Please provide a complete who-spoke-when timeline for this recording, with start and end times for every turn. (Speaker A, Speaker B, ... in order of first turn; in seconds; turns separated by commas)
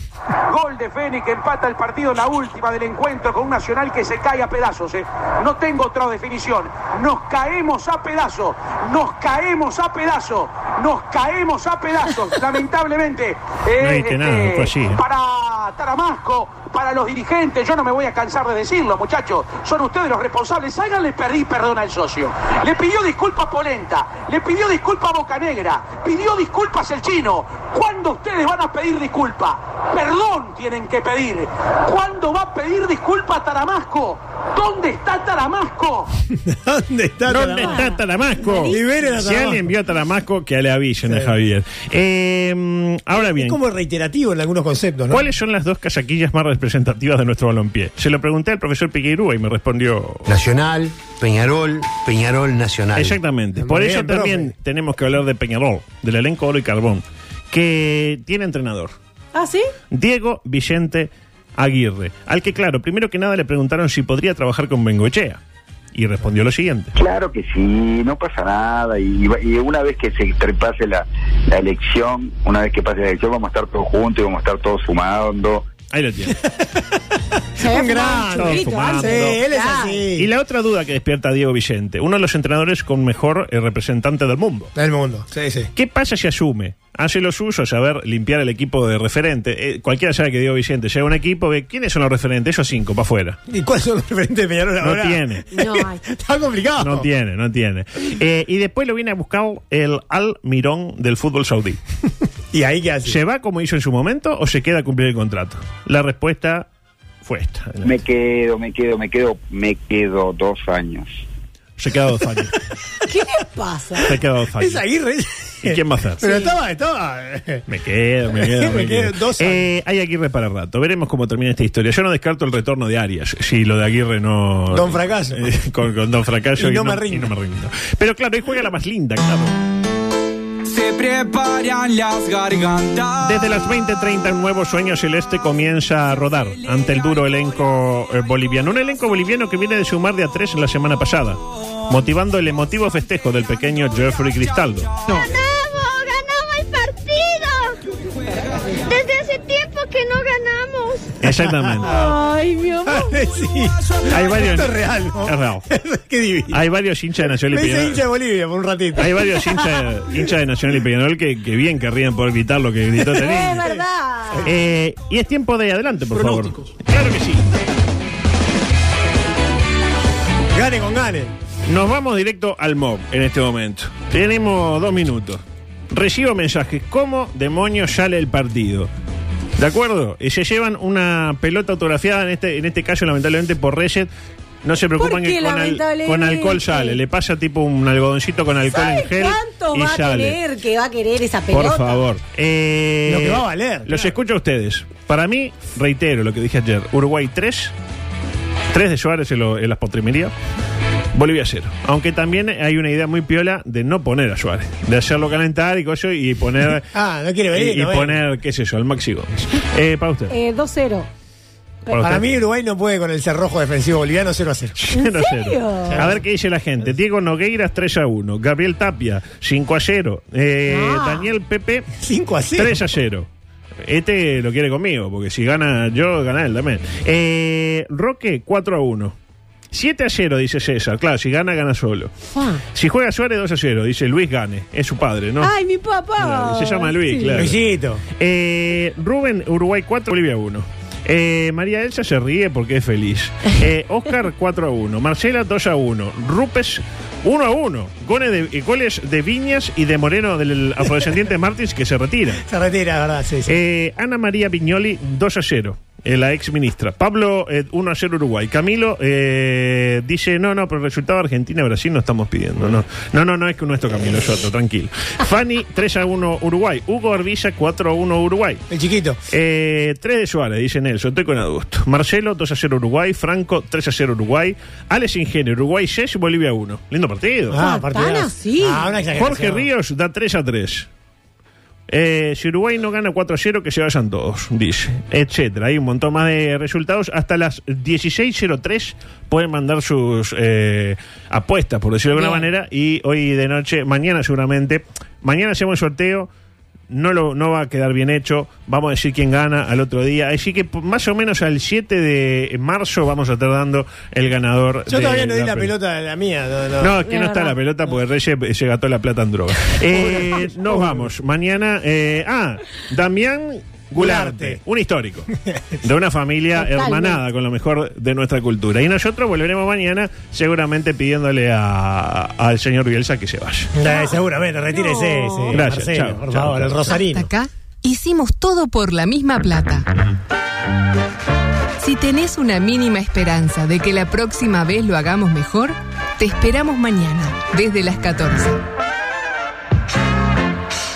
Speaker A: 0.5-36.1, Speaker B: 13.8-15.0, Speaker C: 36.5-37.8, Speaker B: 37.3-43.6, Speaker D: 37.5-39.0, Speaker C: 38.6-39.8, Speaker C: 41.0-41.3, Speaker C: 43.1-45.3, Speaker B: 45.1-50.4, Speaker E: 50.2-53.2, Speaker B: 52.9-58.9, Speaker C: 53.5-54.5, Speaker D: 59.3-59.7, Speaker B: 59.9-65.4, Speaker B: 65.9-67.0, Speaker F: 67.0-75.6, Speaker B: 75.9-76.4, Speaker D: 77.6-80.0, Speaker C: 77.6-80.3, Speaker B: 78.1-79.4, Speaker B: 80.2-84.7, Speaker C: 84.8-85.7, Speaker B: 85.7-93.4, Speaker C: 93.5-97.1, Speaker B: 94.8-95.5, Speaker D: 95.5-96.0, Speaker B: 96.8-101.8, Speaker C: 102.5-103.2, Speaker B: 103.0-106.7, Speaker B: 107.2-108.0, Speaker F: 107.8-111.1, Speaker B: 111.8-112.6, Speaker D: 113.1-114.1, Speaker B: 114.0-114.8, Speaker C: 114.5-117.6, Speaker B: 115.6-116.2, Speaker D: 116.2-116.5, Speaker B: 117.7-129.6, Speaker C: 118.4-119.7, Speaker C: 124.7-125.5, Speaker C: 126.6-127.3, Speaker G: 130.7-133.2, Speaker B: 133.2-145.0, Speaker H: 145.1-147.8, Speaker H: 148.8-151.1, Speaker B: 151.2-152.0, Speaker C: 151.6-151.9, Speaker D: 151.8-153.2, Speaker C: 152.8-156.6, Speaker B: 154.1-155.6, Speaker B: 156.5-158.1, Speaker C: 157.4-159.9, Speaker B: 159.0-163.6, Speaker C: 163.0-164.5, Speaker D: 163.2-164.5, Speaker B: 164.4-167.5, Speaker C: 170.5-171.3, Speaker B: 171.7-178.9, Speaker B: 179.6-184.1, Speaker B: 184.6-190.4, Speaker D: 185.0-187.0, Speaker D: 188.7-192.0, Speaker B: 191.5-197.7, Speaker C: 193.1-194.2, Speaker B: 198.7-200.3, Speaker B: 201.1-206.9, Speaker C: 206.9-208.2, Speaker B: 207.5-210.3, Speaker D: 210.3-211.1, Speaker B: 211.8-212.3, Speaker C: 212.0-214.8, Speaker B: 214.8-221.9, Speaker D: 214.9-216.1, Speaker C: 215.9-216.2, Speaker D: 220.7-221.3, Speaker C: 222.0-222.8, Speaker B: 222.5-223.3, Speaker B: 223.8-229.2, Speaker B: 229.7-232.1, Speaker D: 232.3-232.6, Speaker B: 232.7-235.5, Speaker D: 235.4-237.5, Speaker B: 236.2-237.6, Speaker C: 237.3-238.0, Speaker B: 238.2-252.4, Speaker C: 252.4-253.5, Speaker B: 253.5-268.6, Speaker C: 268.7-269.2, Speaker B: 269.3-277.6, Speaker C: 277.5-279.7, Speaker D: 277.6-278.9, Speaker B: 279.1-280.9, Speaker B: 281.9-296.3, Speaker D: 292.1-292.5, Speaker B: 296.9-305.7, Speaker C: 304.9-307.0, Speaker B: 306.8-315.3, Speaker D: 307.0-307.6, Speaker C: 309.9-311.1, Speaker C: 313.9-314.6, Speaker B: 315.8-323.7, Speaker D: 316.6-317.2, Speaker C: 323.7-327.3, Speaker D: 323.8-325.6, Speaker B: 325.5-327.0, Speaker I: 327.2-329.8, Speaker I: 331.8-338.6